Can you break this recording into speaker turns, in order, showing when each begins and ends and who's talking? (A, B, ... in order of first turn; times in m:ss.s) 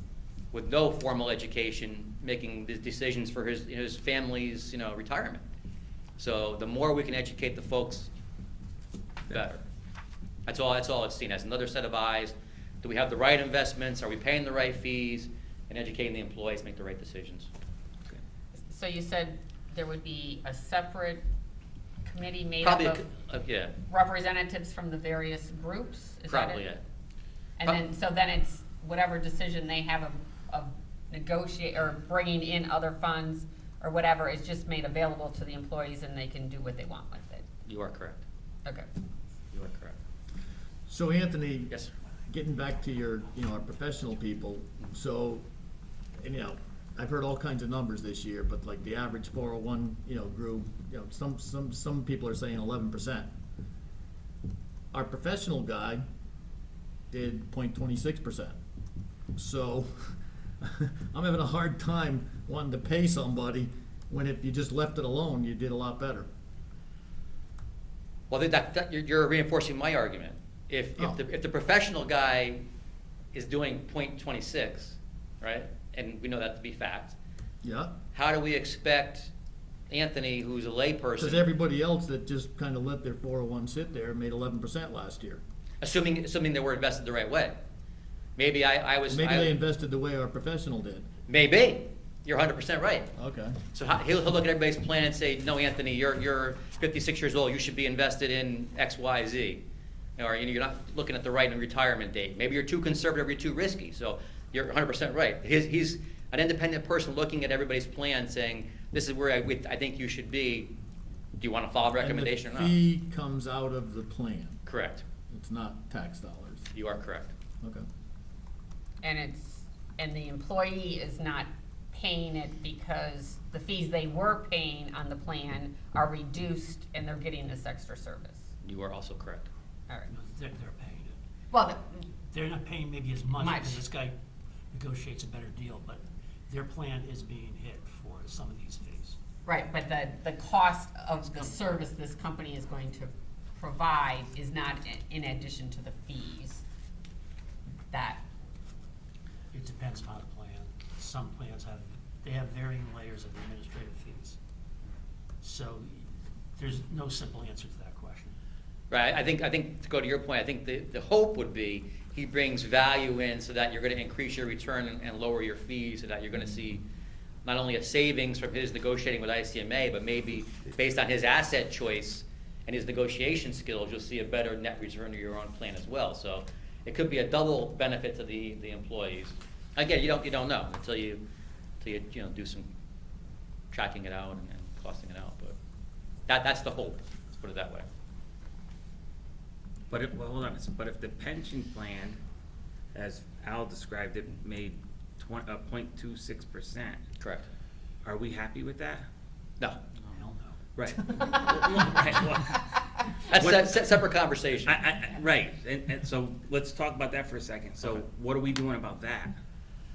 0:00.5-0:05.4 A
0:06.2-0:08.1 A
0:09.3-0:09.6 A
0:10.5-0:17.5 A
0:18.5-0:21.2 B
0:22.0-0:23.0 B
0:22.6-0:23.7 A
0:23.9-0:26.6 B
0:26.3-0:26.8 A
0:27.6-0:37.4 B
0:37.6-0:38.2 A
0:39.5-0:40.0 A
0:40.9-0:41.8 C
0:42.3-0:45.4 C
0:46.2-0:53.3 C
0:54.9-0:56.0 C
0:57.1-0:58.6 C
0:59.3-1:06.3 C
1:08.3-1:12.6 A
1:13.3-1:17.2 A
1:17.6-1:17.9 C
1:18.1-1:19.3 A
1:19.9-1:21.4 A
1:21.2-1:25.4 C
1:25.8-1:27.6 A
1:28.4-1:29.5 A
1:29.1-1:31.0 C
1:31.3-1:33.1 A
1:33.1-1:33.6 C
1:33.7-1:39.6 A
1:40.2-1:50.7 A
1:51.4-1:52.8 A
1:52.0-1:54.6 C
1:54.6-1:55.0 A
1:55.3-1:56.6 C
1:56.7-1:57.3 A
1:59.0-2:08.4 B
2:08.6-2:09.5 A
2:10.1-2:11.2 D
2:11.5-2:12.1 B
2:12.3-2:14.1 D
2:13.4-2:13.8 B
2:14.7-2:19.2 D
2:19.4-2:26.6 B
2:27.9-2:28.2 B
2:29.5-2:34.4 D
2:35.4-2:38.3 D
2:38.9-2:46.8 A
2:47.4-3:01.2 A
3:01.8-3:02.7 A
3:03.7-3:05.6 A
3:06.3-3:07.9 A
3:09.9-3:12.2 E
3:12.9-3:17.0 E
3:17.2-3:17.4 A
3:18.0-3:19.1 E
3:20.1-3:22.4 D
3:20.8-3:22.6 E
3:23.3-3:24.7 A
3:23.3-3:23.7 E
3:24.6-3:29.4 E